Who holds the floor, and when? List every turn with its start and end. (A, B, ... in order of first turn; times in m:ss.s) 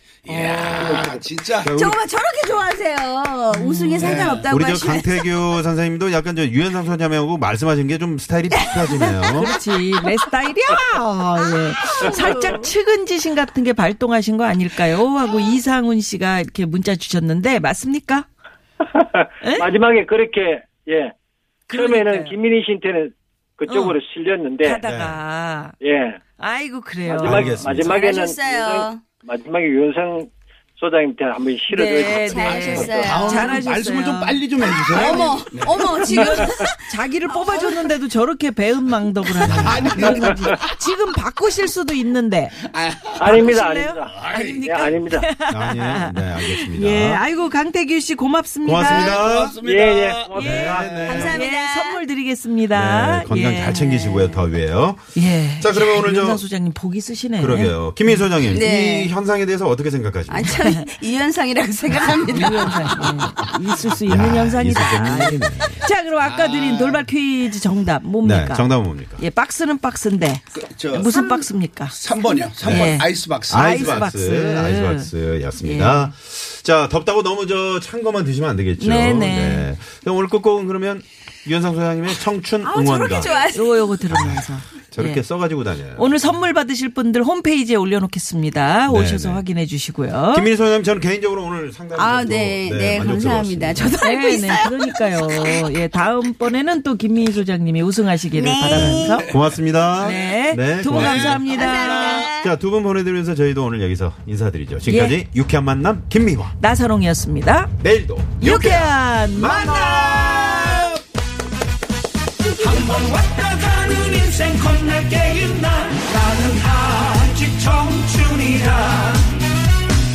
0:00.2-0:01.8 A
0:00.3-0:01.0 B
0:00.7-0:01.2 C
0:01.6-0:02.0 D
0:01.8-0:05.3 E
0:03.5-0:04.5 B
0:04.0-0:04.4 A
0:04.3-0:09.6 D
0:08.6-0:09.5 E
0:09.3-0:18.3 B
0:11.9-0:12.7 E
0:18.9-0:21.1 C
0:19.4-0:19.7 B
0:21.7-0:22.4 B
0:21.7-0:24.8 C
0:23.7-0:24.0 B
0:24.6-0:25.8 B
0:24.8-0:25.2 D
0:25.8-0:26.2 C
0:26.4-0:27.6 B
0:27.0-0:33.1 C
0:27.2-0:27.9 D
0:27.8-0:29.0 E
0:31.7-0:42.6 B
0:32.0-0:33.6 E
0:32.4-0:36.0 A
0:34.7-0:36.8 E
0:37.5-0:37.8 E
0:39.4-0:40.0 D
0:39.5-0:40.7 A
0:42.6-0:43.6 A
0:43.2-0:45.3 C
0:43.3-0:49.2 B
0:44.2-0:44.7 A
0:45.5-0:47.2 D
0:48.6-0:49.6 D
0:48.8-0:51.3 A
0:49.6-0:51.2 C
0:50.4-0:51.4 D
0:50.4-0:54.4 B
0:51.0-0:52.0 E
0:52.7-0:56.4 D
0:55.2-0:58.3 B
0:57.4-1:00.8 D
0:58.5-0:59.1 E
1:00.3-1:03.1 E
1:00.4-1:00.8 B
1:02.0-1:12.0 B
1:04.1-1:05.8 D
1:06.2-1:07.0 A
1:08.2-1:09.2 D
1:10.6-1:14.1 A
1:12.6-1:12.9 D
1:12.6-1:16.1 B
1:13.5-1:23.4 D
1:18.8-1:19.7 B
1:22.6-1:24.0 E
1:23.2-1:25.2 B
1:24.1-1:26.2 D
1:26.0-1:30.5 B
1:28.9-1:29.4 D
1:30.3-1:33.9 D
1:32.0-1:35.6 E
1:33.9-1:39.2 B
1:38.4-1:39.2 E
1:38.7-1:46.6 D
1:39.2-1:40.4 A
1:40.0-1:42.2 B
1:40.9-1:42.3 A
1:41.4-1:42.5 E
1:44.9-1:45.2 B
1:46.6-1:47.7 B
1:47.8-1:51.0 D
1:48.4-1:50.9 B
1:53.5-1:54.4 B
1:54.4-1:58.2 F